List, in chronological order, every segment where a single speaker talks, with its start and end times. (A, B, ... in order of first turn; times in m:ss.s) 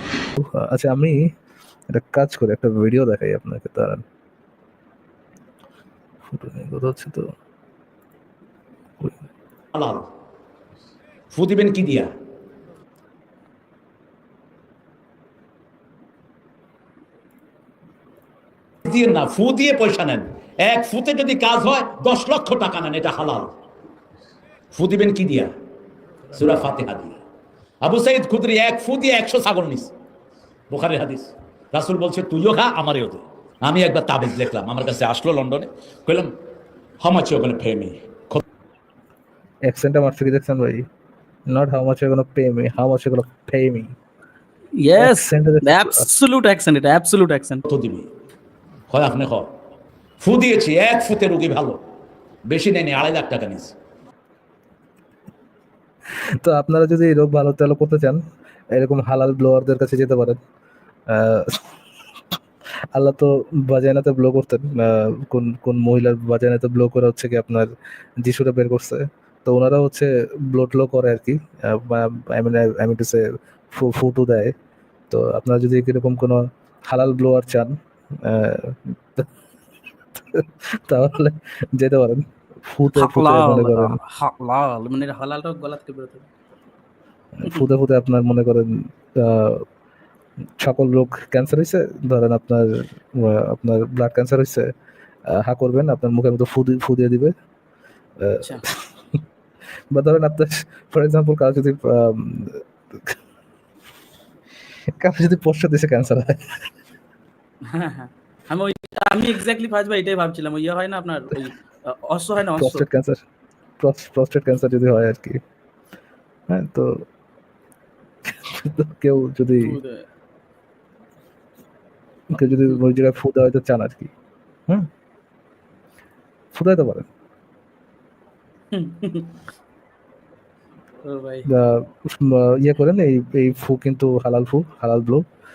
0:00.4-0:01.3 A
0:01.9-0:04.0 A
0:06.2-0:07.3 A
0:09.0-0:09.2 A
0:09.7-0:10.1 B
0:11.3-0:12.1 B
0:18.8-0:23.5 B
0:24.7-0:25.5 B
0:26.3-0:27.2 B
0:27.8-0:29.9 B
0:30.7-0:36.3 B
0:37.0-0:38.4 B
0:39.7-0:40.8 A
0:41.5-0:43.9 A
0:44.8-0:47.6 C
0:45.0-0:46.0 A
0:47.7-0:48.1 B
0:48.9-0:49.5 B
0:50.2-0:51.8 B
0:52.5-0:53.7 B
0:56.4-0:58.2 A
0:58.7-1:00.4 A
1:01.1-1:01.6 A
1:02.9-1:13.2 A
1:13.7-1:14.5 A
1:15.1-1:19.3 A
1:20.2-1:24.0 A
1:22.9-1:26.2 C
1:27.4-1:29.6 A
1:30.6-1:34.7 A
1:35.3-1:37.3 A
1:38.2-1:38.8 A
1:39.9-1:43.1 A
1:44.9-1:46.4 A
1:47.7-1:52.8 C
1:52.6-1:53.2 A
1:53.8-1:55.4 A
1:56.5-1:56.9 A
1:58.3-1:59.8 A
1:59.6-2:00.0 C
2:02.3-2:04.1 A
2:06.5-2:07.1 A
2:08.7-2:09.3 C
2:11.0-2:11.4 C
2:11.5-2:15.2 A